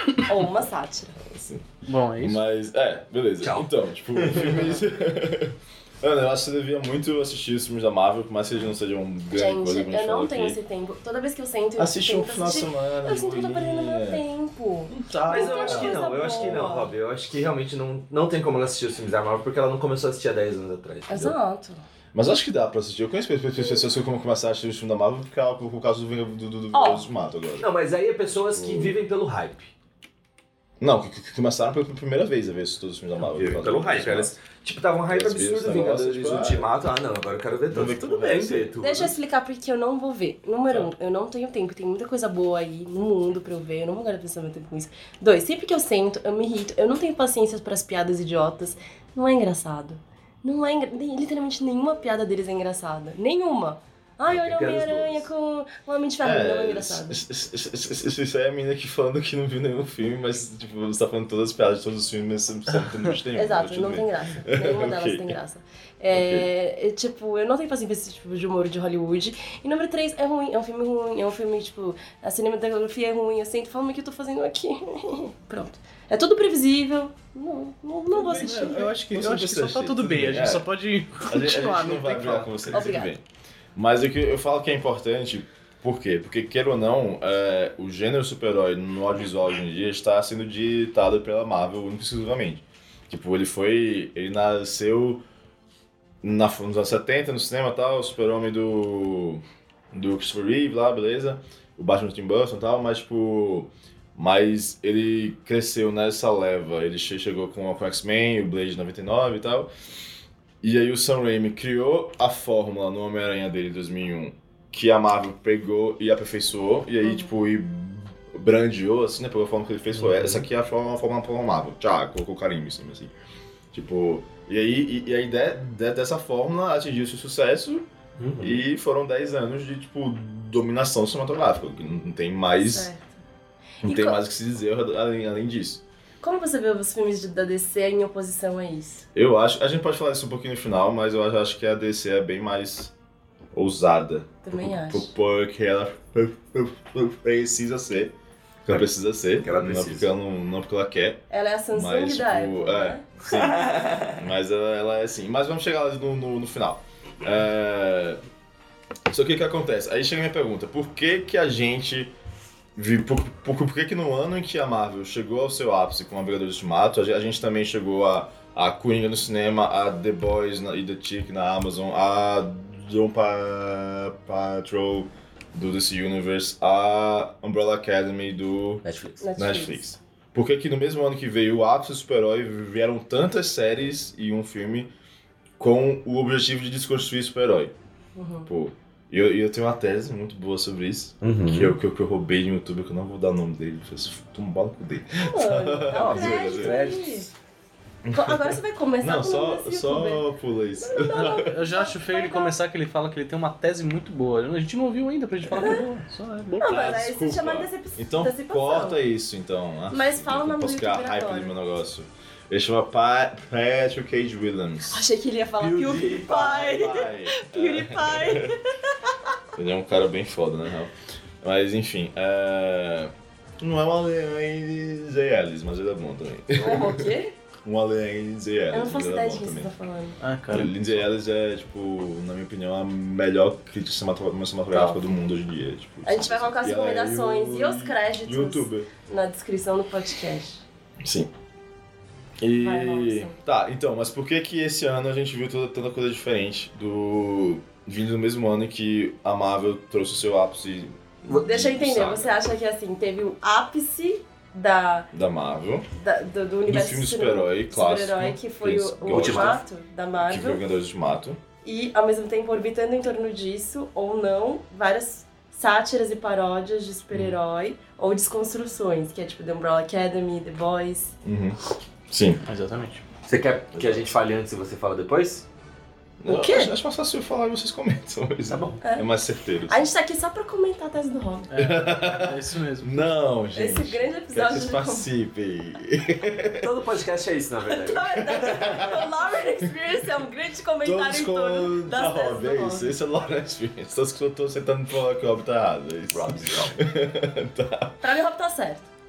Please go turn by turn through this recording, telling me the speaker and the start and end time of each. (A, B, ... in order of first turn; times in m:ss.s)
0:00.2-0:01.2 A
0:01.3-0:01.6 B
0:01.8-0:02.4 C
0:02.2-0:10.6 B
0:03.4-0:04.8 D
0:09.3-0:16.9 A
0:11.8-0:14.2 B
0:14.9-0:15.9 C
0:15.3-0:21.4 D
0:16.4-0:16.7 B
0:21.1-0:21.8 A
0:22.1-0:27.7 B
0:26.7-0:27.1 A
0:27.6-0:29.7 D
0:28.3-0:29.0 B
0:30.8-0:34.4 B
0:33.2-0:39.1 D
0:35.1-0:36.7 B
0:37.7-0:38.7 B
0:38.8-0:57.2 A
0:54.3-0:55.3 D
0:56.2-1:05.4 B
1:03.4-1:18.9 A
1:06.1-1:06.5 B
1:18.1-1:22.9 C
1:18.3-1:20.7 B
1:21.3-1:23.2 B
1:22.7-1:23.1 A
1:23.8-1:35.2 B
1:36.2-1:49.7 B
1:50.6-2:03.1 B
1:57.0-1:57.3 A
2:00.0-2:00.4 D
2:03.7-2:07.8 B
2:08.2-2:08.7 D
2:08.4-2:12.9 B
2:12.6-2:13.2 A
2:13.8-2:14.2 A
2:13.8-2:15.8 B
2:16.2-2:19.0 A
2:19.2-2:22.9 B
2:23.5-2:28.1 B
2:24.4-2:25.1 A
2:28.6-2:38.2 B
2:29.4-2:30.1 D
2:31.3-2:33.4 A
2:33.3-2:34.2 D
2:39.1-2:42.1 B
2:42.8-2:58.8 B
2:58.8-2:59.2 D
2:59.2-2:59.8 A
2:59.4-3:04.9 B
3:05.6-3:07.7 B
3:08.2-3:08.5 A
3:08.5-3:16.8 B
3:11.2-3:11.8 D
3:15.2-3:17.3 A
3:16.0-3:17.3 D
3:18.0-3:21.5 B
3:18.1-3:22.5 A
3:21.2-3:26.9 C
3:25.5-3:25.8 A
3:26.6-3:29.0 A
3:26.6-3:35.0 B
3:29.9-3:31.6 A
3:34.9-3:38.6 A
3:35.6-3:36.6 D
3:36.2-3:38.6 B
3:39.6-3:47.1 B
3:46.6-3:47.3 A
3:47.6-3:49.7 B
3:48.7-3:50.2 A
3:50.2-3:51.0 C
3:50.5-3:58.9 B
3:54.7-3:55.0 A
3:56.0-4:00.6 A
4:01.0-4:01.3 B
4:02.4-4:12.3 B
4:02.6-4:03.4 A
4:11.3-4:12.3 D
4:11.3-4:15.1 A
4:15.1-4:15.9 B
4:16.0-4:20.6 A
4:16.7-4:19.6 B
4:19.1-4:19.6 D
4:20.2-4:21.4 B
4:21.6-4:31.2 A
4:31.2-4:31.6 B
4:32.1-4:32.4 B
4:32.5-4:33.0 C
4:33.3-4:35.5 D
4:33.7-4:34.1 B
4:36.2-4:39.9 B
4:36.3-4:36.7 A
4:38.5-4:38.8 D
4:38.8-4:39.1 A
4:39.7-4:41.5 A
4:41.5-4:43.2 C
4:41.6-4:46.7 B
4:43.5-4:45.1 A
4:46.6-4:48.7 D
4:47.7-4:52.9 A
4:48.5-4:49.0 B
4:50.8-4:58.0 B
4:56.1-4:56.8 D
4:58.0-4:58.9 A